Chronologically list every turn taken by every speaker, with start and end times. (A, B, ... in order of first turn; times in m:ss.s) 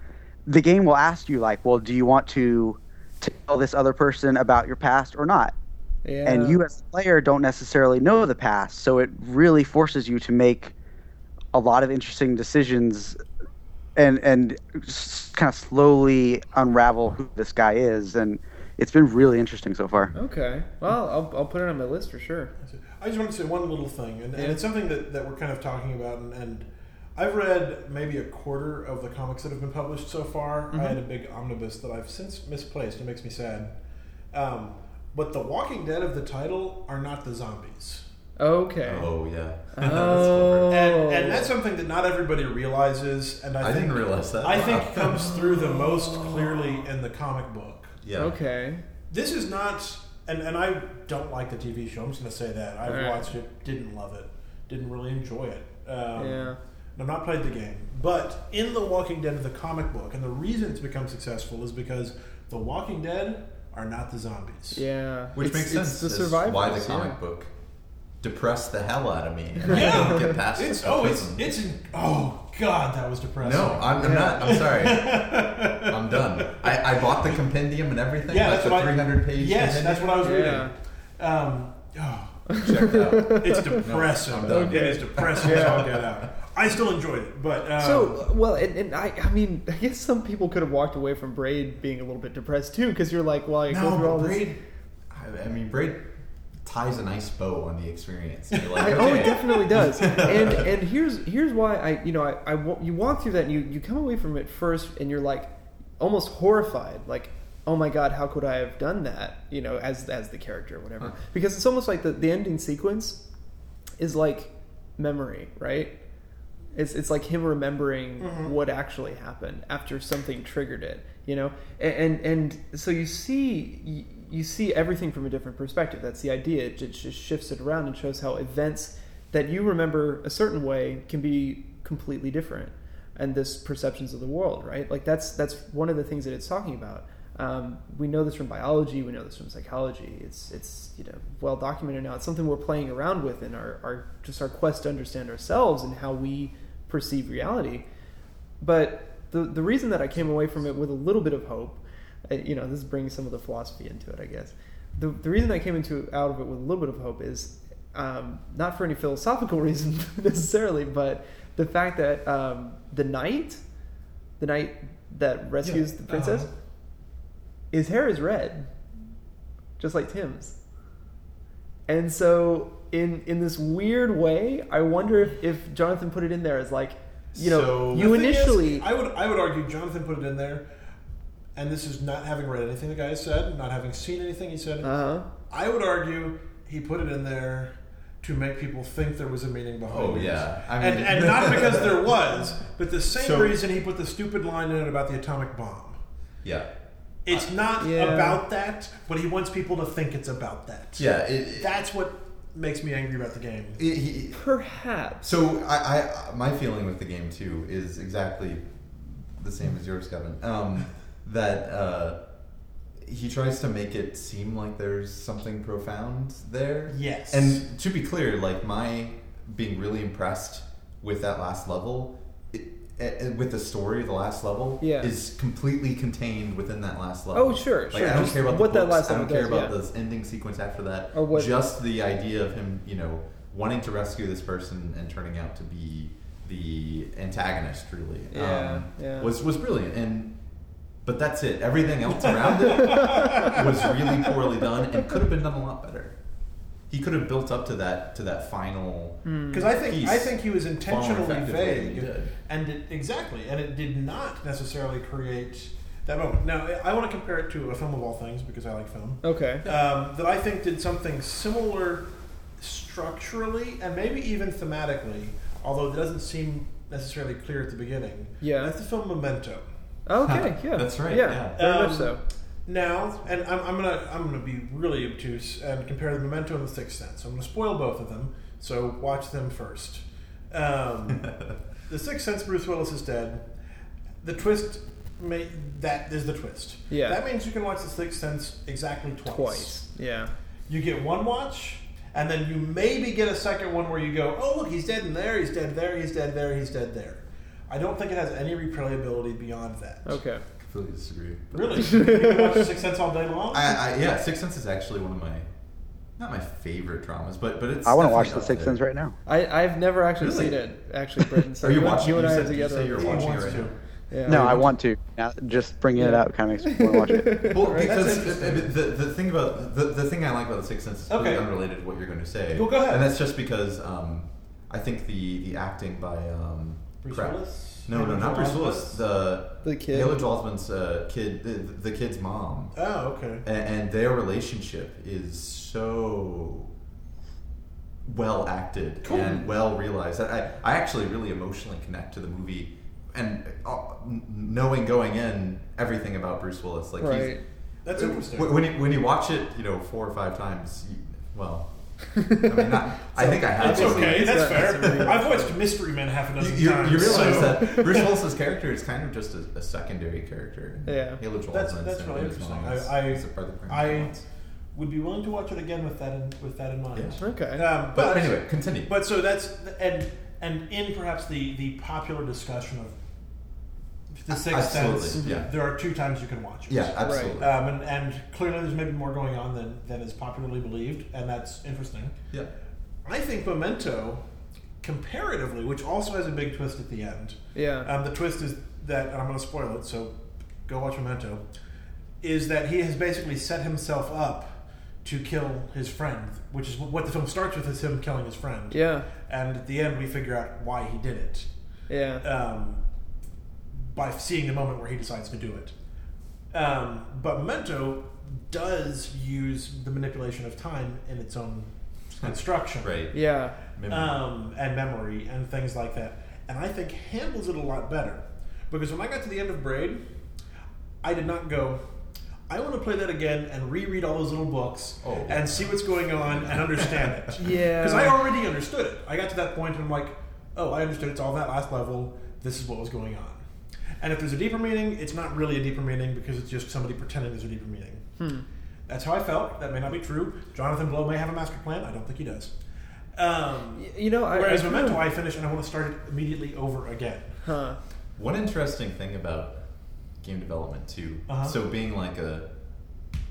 0:00.4-0:05.5 A
0:06.0-0:06.6 B
0:06.2-0:10.7 A
0:11.5-0:13.2 A
0:13.9-0:20.1 A
0:20.1-0:22.5 B
0:22.6-0:33.7 C
0:24.3-0:24.6 B
0:30.7-0:31.0 B
0:34.3-0:38.0 C
0:38.4-0:39.1 B
0:38.8-0:40.7 D
0:39.7-0:41.5 B
0:40.7-0:47.9 C
0:43.6-0:45.3 D
0:45.2-0:46.8 B
0:48.0-0:48.4 D
0:48.2-0:48.8 B
0:49.1-1:04.8 C
0:52.8-0:53.3 B
0:56.2-0:56.6 B
1:04.7-1:07.2 B
1:05.3-1:07.5 D
1:08.2-1:11.5 D
1:09.6-1:17.1 C
1:09.7-1:10.1 B
1:13.4-1:20.4 D
1:14.0-1:14.6 B
1:18.3-1:28.2 C
1:20.2-1:20.7 B
1:22.5-1:23.8 B
1:22.6-1:26.1 D
1:24.4-1:25.9 B
1:27.8-1:34.5 B
1:33.7-1:34.6 D
1:35.1-1:36.1 D
1:36.6-1:40.7 D
1:38.8-1:39.3 C
1:38.8-1:53.2 B
1:54.0-1:56.0 B
1:56.7-2:27.8 B
1:58.2-1:58.5 C
2:28.6-2:43.6 B
2:44.4-2:46.5 B
2:46.1-2:46.5 C
2:47.7-2:48.7 B
2:49.8-2:50.6 B
2:51.9-2:58.9 B
2:57.3-2:58.1 D
2:57.8-3:00.6 C
3:01.6-3:04.9 C
3:04.8-3:05.3 B
3:05.5-3:16.0 C
3:09.9-3:12.1 D
3:13.1-3:13.6 D
3:16.4-3:16.7 D
3:17.3-3:21.1 C
3:17.8-3:18.4 B
3:21.0-3:21.7 D
3:21.6-3:23.8 C
3:23.8-3:24.4 D
3:24.3-3:25.4 B
3:25.2-3:32.2 D
3:33.0-4:00.3 D
3:36.9-3:37.6 C
3:44.8-3:45.1 B
3:47.3-3:49.7 B
3:51.1-3:51.5 B
3:58.3-3:59.3 B
4:01.0-4:06.1 D
4:02.7-4:03.6 C
4:03.0-4:03.3 B
4:06.9-4:12.3 D
4:09.2-4:09.7 B
4:09.5-4:29.7 C
4:19.2-4:19.7 B
4:28.4-4:28.8 B
4:30.0-4:32.2 B
4:30.2-4:31.6 D
4:31.6-4:32.1 C
4:32.6-4:41.3 C
4:41.9-4:43.4 C
4:44.2-4:49.8 C
4:46.9-4:47.2 B
4:49.3-4:50.3 B
4:50.7-5:00.2 C
5:00.0-5:00.4 B
5:00.6-5:02.1 D
5:01.5-5:03.8 C
5:01.9-5:02.6 B
5:03.5-5:05.5 D
5:06.2-5:08.8 D
5:07.8-5:09.2 A
5:09.3-5:14.6 B
5:10.2-5:10.6 D
5:11.4-5:13.7 D
5:12.9-5:13.7 C
5:14.3-5:14.7 D
5:14.3-5:17.6 A
5:15.9-5:18.6 B
5:17.5-5:32.8 D
5:18.0-5:18.5 C
5:21.1-5:21.5 C
5:22.5-5:23.1 C
5:27.0-5:29.0 C
5:29.6-5:30.2 B
5:32.7-5:33.4 C
5:33.4-5:36.7 D
5:38.0-5:55.2 D
5:39.0-5:39.4 C
5:47.0-5:47.4 B
5:47.8-5:48.6 C
5:52.2-5:55.6 B
5:53.5-5:58.1 C
5:56.4-6:04.2 D
5:56.9-5:58.0 B
6:00.9-6:01.2 B
6:01.5-6:04.1 C
6:04.7-6:13.0 C
6:06.9-6:07.2 D
6:07.2-6:07.7 B
6:07.9-6:08.9 D
6:14.1-6:22.1 C
6:14.3-6:15.5 D
6:15.2-6:15.4 B
6:16.7-6:17.6 D
6:17.0-6:17.4 B
6:23.0-6:24.2 C
6:24.8-6:31.4 C
6:27.5-6:27.9 B
6:32.2-6:41.5 C
6:38.7-6:39.1 B
6:41.9-6:42.2 B
6:42.2-6:42.8 C
6:43.8-6:45.7 C
6:46.5-6:51.7 C
6:52.2-6:53.1 D
6:52.2-6:53.0 C
6:53.1-6:53.6 B
6:53.7-6:54.2 D
6:53.9-7:00.0 C
7:01.0-7:01.8 C
7:02.5-7:13.4 C
7:05.0-7:07.3 D
7:07.4-7:08.2 B
7:14.0-7:18.0 C
7:18.2-7:18.4 B
7:18.9-7:22.5 C
7:23.1-7:27.3 C
7:23.8-7:25.1 B
7:27.4-7:27.8 B
7:28.2-7:29.6 D
7:30.2-7:32.5 D
7:31.3-7:31.6 C